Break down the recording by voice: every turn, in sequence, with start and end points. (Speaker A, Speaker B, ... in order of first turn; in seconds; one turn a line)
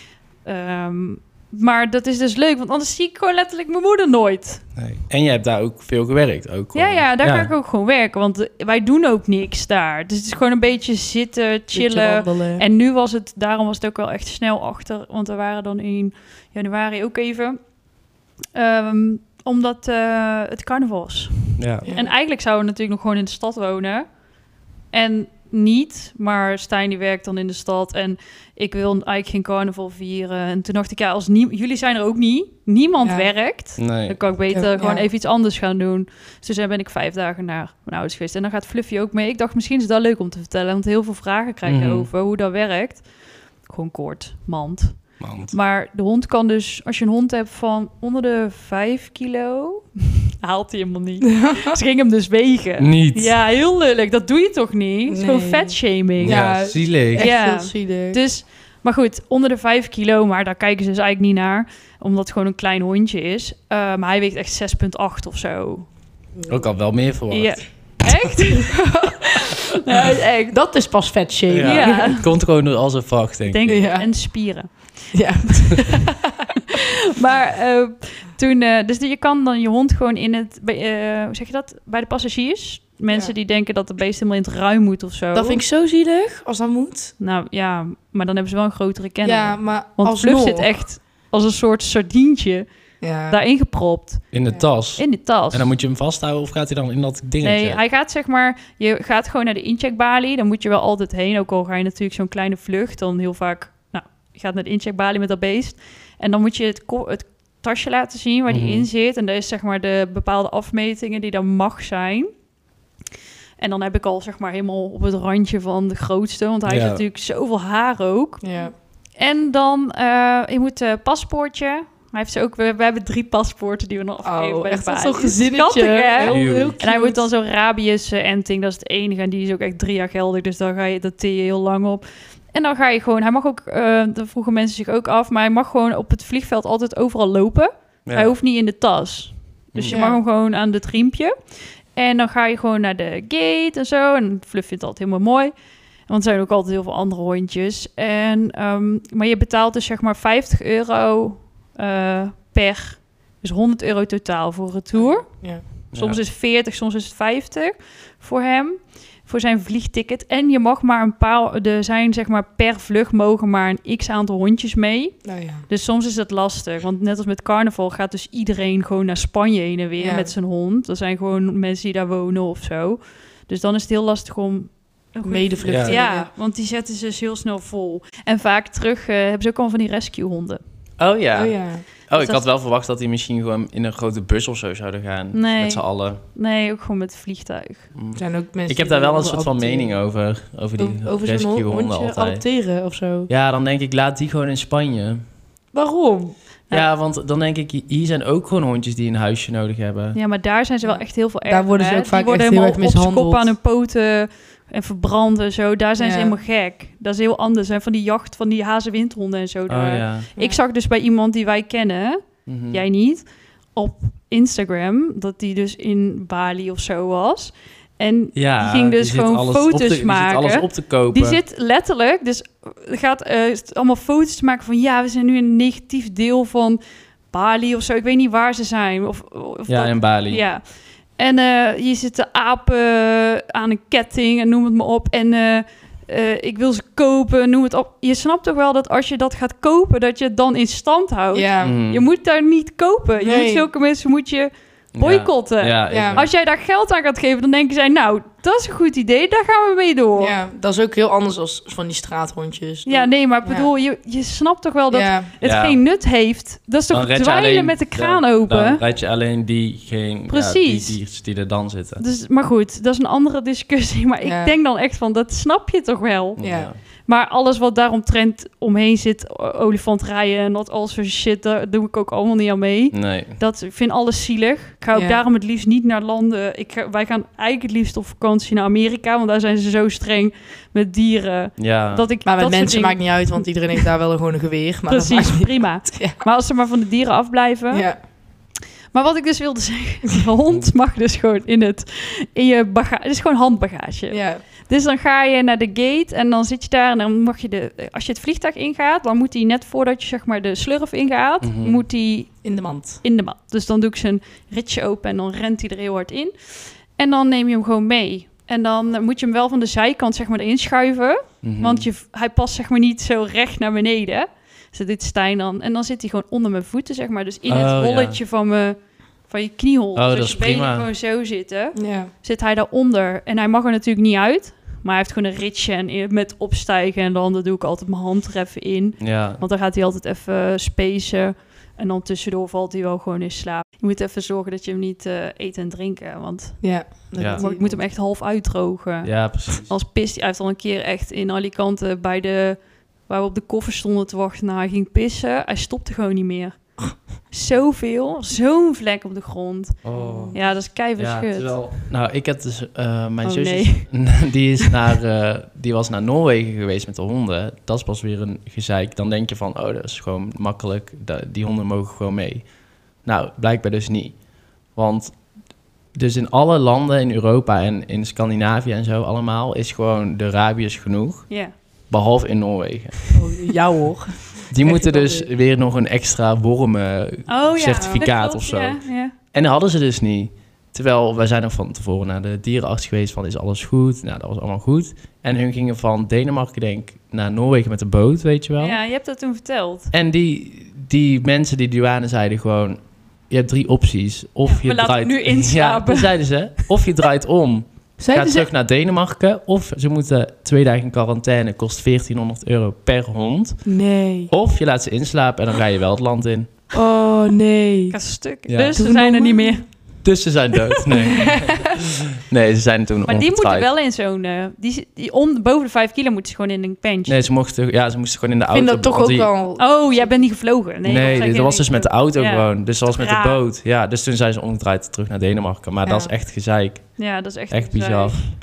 Speaker A: 0.4-4.6
Speaker B: 4.8-7.5
Speaker A: 6.7-17.6
Speaker C: 11.7-12.6
Speaker A: 18.6-24.1
Speaker B: 21.6-21.9
Speaker C: 21.8-22.1
Speaker A: 24.9-43.1
Speaker C: 33.0-33.3
Speaker B: 33.8-34.2
Speaker C: 34.5-35.1
Speaker B: 41.7-42.1
Speaker A: 43.6-65.9
Speaker B: 45.2-45.5
Speaker C: 51.3-51.7
Speaker B: 52.8-53.4
Speaker C: 55.1-58.2
Speaker B: 56.2-57.2
Speaker B: 66.5-68.1
Speaker A: 67.3-70.6
Speaker C: 68.7-69.3
Speaker C: 70.5-72.2
Speaker B: 71.5-73.9
Speaker A: 71.6-72.3
Speaker A: 73.5-75.1
Speaker C: 73.7-74.2
Speaker C: 75.1-76.5
Speaker A: 76.7-85.6
Speaker C: 85.3-87.1
Speaker A: 87.2-92.7
Speaker C: 89.2-90.7
Speaker C: 93.0-93.4
Speaker A: 93.3-94.3
Speaker B: 94.3-97.8
Speaker A: 95.0-95.7
Speaker A: 97.4-112.3
Speaker B: 108.5-108.9
Speaker A: 113.6-118.5
Speaker B: 116.7-117.0
Speaker C: 118.4-118.7
Speaker A: 119.1-141.3
Speaker C: 124.2-127.3
Speaker B: 126.2-126.8
Speaker B: 138.1-138.3
Speaker B: 139.7-140.0
Speaker C: 139.9-140.2
Speaker A: 141.9-145.5
Speaker A: 146.1-180.6
Speaker C: 154.9-155.6
Speaker B: 155.9-156.2
Speaker C: 165.2-165.6
Speaker C: 170.0-170.3
Speaker C: 175.2-176.3
Speaker B: 175.6-175.9
Speaker B: 181.0-186.2
Speaker C: 181.3-181.8
Speaker A: 182.1-182.4
Speaker A: 185.3-187.9
Speaker B: 187.9-192.4
Speaker C: 188.2-189.9
Speaker C: 190.8-193.3
Speaker B: 193.3-195.2
Speaker C: 195.7-196.4
Speaker B: 196.7-200.2
Speaker A: 200.1-226.8
Speaker C: 200.8-203.5
Speaker C: 206.0-206.4
Speaker B: 209.7-210.3
Speaker B: 212.5-212.8
Speaker B: 218.3-221.4
Speaker A: 227.3-230.6
Speaker B: 229.7-230.4
Speaker A: 231.2-250.3
Speaker C: 241.3-241.8
Speaker B: 241.6-242.1
Speaker C: 243.2-243.7
Speaker B: 244.9-246.3
Speaker C: 245.9-246.3
Speaker C: 250.2-253.7
Speaker A: 252.9-258.8
Speaker C: 254.9-255.3
Speaker B: 255.4-255.8
Speaker B: 256.9-262.0
Speaker A: 260.3-261.0
Speaker A: 262.0-266.4
Speaker C: 264.2-264.5
Speaker B: 266.4-266.8
Speaker C: 266.4-266.7
Speaker A: 267.0-283.8
Speaker B: 272.9-273.4
Speaker C: 274.9-275.2
Speaker B: 281.6-282.1
Speaker C: 282.2-286.2
Speaker A: 284.9-288.1
Speaker C: 287.7-288.0
Speaker A: 288.9-302.4
Speaker C: 294.1-294.4
Speaker B: 301.4-301.8
Speaker C: 302.4-303.0
Speaker A: 303.0-306.3
Speaker A: 306.9-351.8
Speaker B: 311.4-311.9
Speaker B: 317.5-318.2
Speaker B: 320.0-320.9
Speaker C: 321.8-322.1
Speaker B: 329.0-329.4
Speaker C: 336.6-337.8
Speaker B: 339.0-339.7
Speaker B: 349.8-362.5
Speaker C: 349.9-350.4
Speaker A: 353.2-354.7
Speaker B: 363.0-364.2
Speaker B: 364.7-365.2
Speaker B: 365.9-371.4
Speaker B: 371.9-373.2
Speaker C: 373.1-375.3
Speaker B: 374.5-378.8
Speaker A: 377.3-379.1
Speaker C: 377.8-378.1
Speaker B: 379.3-388.8
Speaker A: 388.6-389.9
Speaker B: 389.9-403.6
Speaker A: 394.4-396.1
Speaker C: 398.0-398.5
Speaker C: 403.7-404.3
Speaker B: 404.3-406.5
Speaker C: 406.7-408.0
Speaker A: 407.9-409.7
Speaker B: 408.5-408.8
Speaker C: 408.8-409.6
Speaker B: 410.0-413.7
Speaker A: 410.8-411.1
Speaker C: 411.1-411.8
Speaker A: 413.1-417.2
Speaker B: 417.1-419.3
Speaker C: 418.5-420.1
Speaker A: 419.6-423.4
Speaker B: 420.8-428.3
Speaker C: 420.9-421.2
Speaker C: 425.9-426.1
Speaker A: 427.0-428.3